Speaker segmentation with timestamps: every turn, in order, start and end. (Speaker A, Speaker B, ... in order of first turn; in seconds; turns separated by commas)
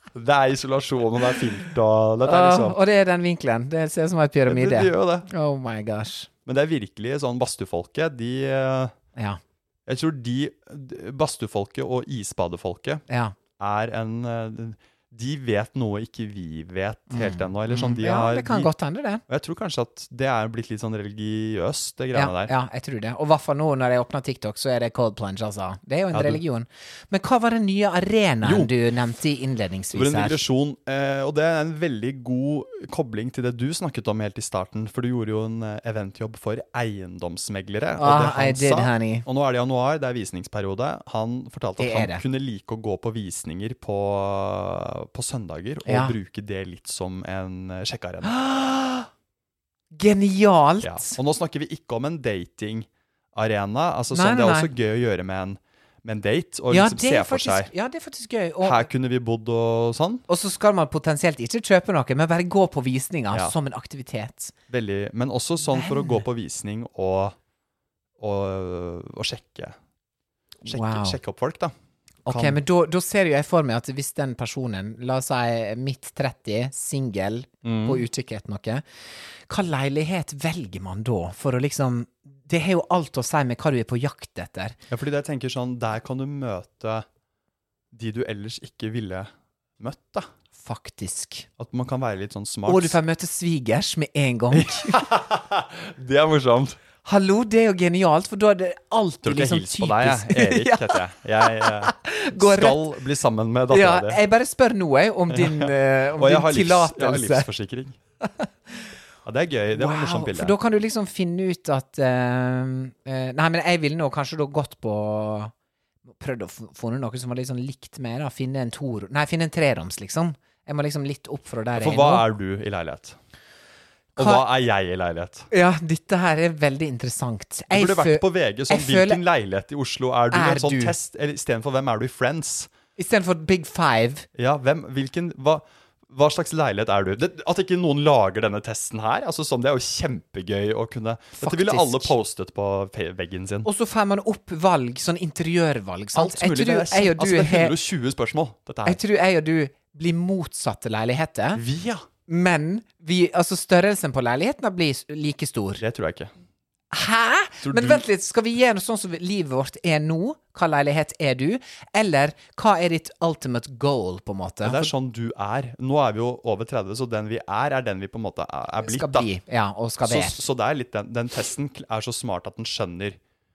Speaker A: 0.1-2.8, Speaker B: 2.2-6.3, Speaker A: 4.5-5.3, Speaker A: 6.5-8.9, Speaker A: 9.9-13.0, Speaker B: 13.1-13.3, Speaker A: 13.6-18.7, Speaker B: 17.1-19.2, Speaker A: 19.3-22.5, Speaker B: 22.1-30.4, Speaker A: 26.1-26.4, Speaker A: 28.4-28.7, Speaker A: 29.9-48.3, Speaker B: 38.0-39.2, Speaker B: 41.8-42.2, Speaker B: 45.9-46.2, Speaker B: 48.2-49.1, Speaker B: 49.9-51.2, Speaker A: 50.8-57.7, Speaker B: 54.1-54.7, Speaker B: 56.7-58.9, Speaker A: 58.6-60.2, Speaker B: 60.3-64.5, Speaker A: 64.7-67.4, Speaker B: 65.7-66.2, Speaker A: 68.2-69.8, Speaker B: 70.7-71.2, Speaker A: 70.7-71.7, Speaker A: 72.3-72.6, Speaker B: 72.3-78.8, Speaker A: 77.6-78.0, Speaker B: 79.5-84.8, Speaker A: 84.9-87.0, Speaker A: 87.9-90.3, Speaker B: 90.6-91.5, Speaker A: 91.6-93.0, Speaker B: 92.7-95.0, Speaker A: 94.5-96.8, Speaker B: 97.0-102.8, Speaker A: 99.2-104.2, Speaker B: 103.7-107.5, Speaker A: 105.3-108.0, Speaker B: 108.2-108.9, Speaker A: 109.2-110.6, Speaker B: 109.8-115.5, Speaker B: 116.1-122.2, Speaker A: 121.8-123.2, Speaker B: 124.2-124.5, Speaker A: 124.2-125.5, Speaker B: 125.5-129.2, Speaker A: 127.7-132.7, Speaker B: 130.3-131.0, Speaker B: 133.0-134.3, Speaker A: 134.3-143.7, Speaker B: 141.4-142.1, Speaker B: 143.7-147.8, Speaker A: 146.1-149.0, Speaker B: 148.8-151.6, Speaker A: 151.5-152.1, Speaker B: 152.3-155.8, Speaker A: 155.8-156.3, Speaker B: 156.9-164.9, Speaker A: 157.6-158.1, Speaker A: 164.6-169.3, Speaker B: 168.8-170.4, Speaker A: 170.1-173.2